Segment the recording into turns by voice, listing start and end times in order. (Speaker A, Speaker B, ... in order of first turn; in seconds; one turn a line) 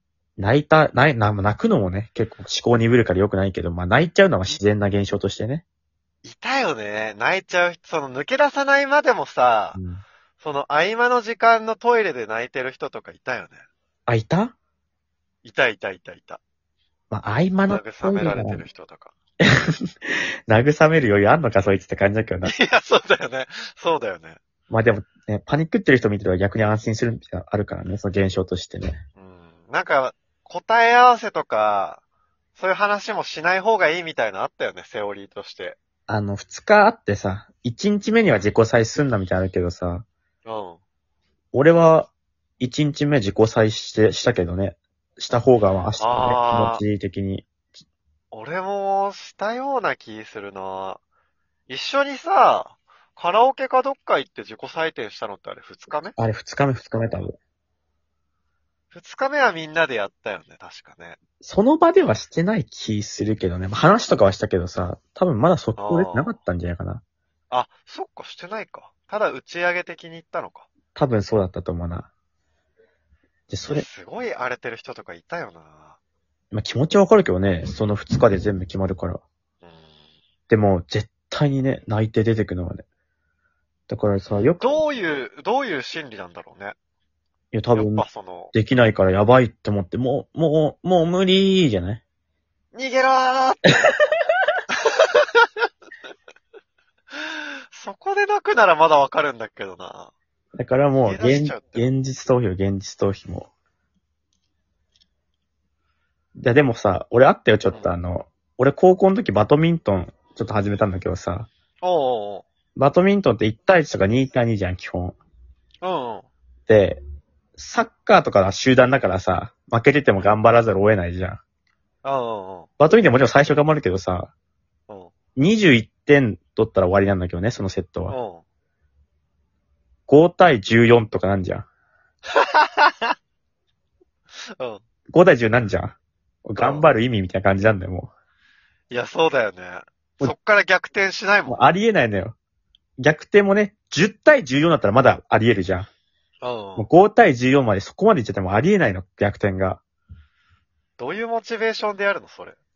Speaker A: 0.4-5.6
Speaker B: 6.2-9.8
Speaker A: 9.8-10.0
Speaker B: 10.4-13.6
Speaker A: 14.1-14.5
Speaker B: 15.4-16.4
Speaker A: 17.1-18.6
Speaker B: 17.7-19.1
Speaker A: 19.4-22.5
Speaker B: 22.4-24.4
Speaker A: 24.7-29.0
Speaker B: 29.2-32.0
Speaker B: 32.6-35.8
Speaker A: 36.1-40.0
Speaker B: 40.5-40.8
Speaker A: 41.5-47.5
Speaker B: 46.0-46.8
Speaker B: 48.3-51.0
Speaker B: 51.7-56.2
Speaker A: 56.2-57.4
Speaker B: 58.9-61.2
Speaker A: 61.4-67.0
Speaker B: 65.8-66.3
Speaker B: 67.5-70.7
Speaker A: 71.0-72.1
Speaker A: 73.5-73.9
Speaker B: 73.7-76.0
Speaker A: 76.5-79.2
Speaker A: 80.5-82.8
Speaker A: 83.9-84.8
Speaker B: 84.6-86.8
Speaker A: 87.5-92.0
Speaker B: 87.8-88.5
Speaker B: 92.7-93.9
Speaker B: 94.8-95.5
Speaker B: 97.2-100.1
Speaker A: 100.5-103.5
Speaker B: 101.0-101.9
Speaker A: 106.4-111.5
Speaker B: 111.8-112.5
Speaker A: 112.8-115.2
Speaker B: 115.8-116.3
Speaker A: 116.7-117.0
Speaker A: 117.6-121.4
Speaker B: 122.0-122.7
Speaker A: 122.8-124.3
Speaker A: 125.4-128.2
Speaker B: 128.1-128.4
Speaker A: 130.1-131.7
Speaker B: 132.3-133.2
Speaker A: 135.1-138.1
Speaker B: 136.6-136.9
Speaker B: 138.9-141.6
Speaker A: 141.5-142.3
Speaker A: 143.0-145.9
Speaker B: 146.4-146.9
Speaker A: 146.8-149.8
Speaker B: 151.0-152.6